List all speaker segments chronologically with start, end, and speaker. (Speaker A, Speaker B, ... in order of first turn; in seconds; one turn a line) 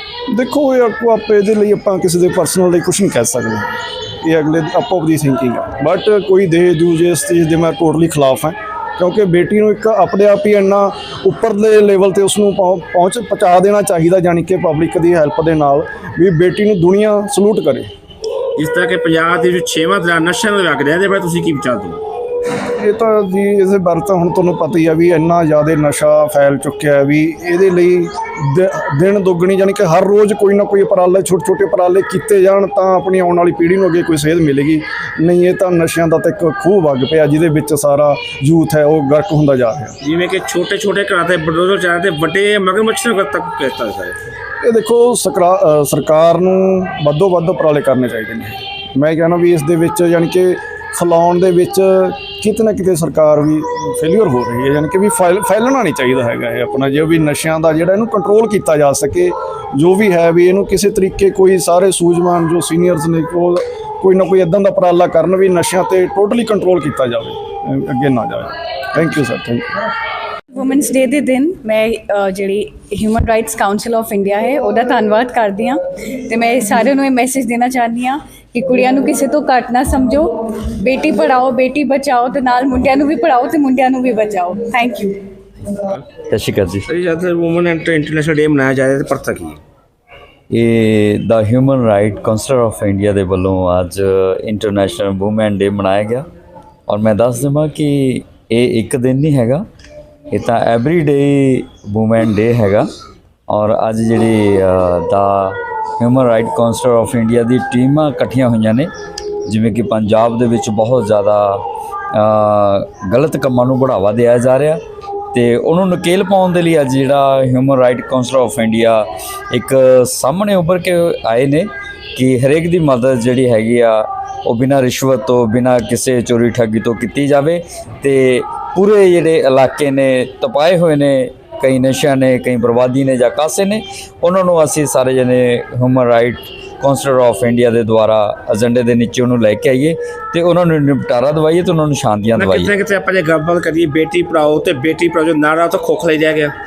Speaker A: 0.3-17.9
Speaker B: 18.6-22.0
Speaker A: 22.6-40.0
Speaker B: 40.0-44.2
Speaker A: 44.6-69.7
Speaker C: 70.5-85.2
Speaker D: 86.3-86.9
Speaker B: 86.9-89.6
Speaker D: 90.5-96.2
Speaker D: 96.9-99.7
Speaker D: 100.3-102.9
Speaker D: 103.5-108.9
Speaker D: 109.5-114.8
Speaker D: 115.3-142.7
Speaker B: 142.3-146.5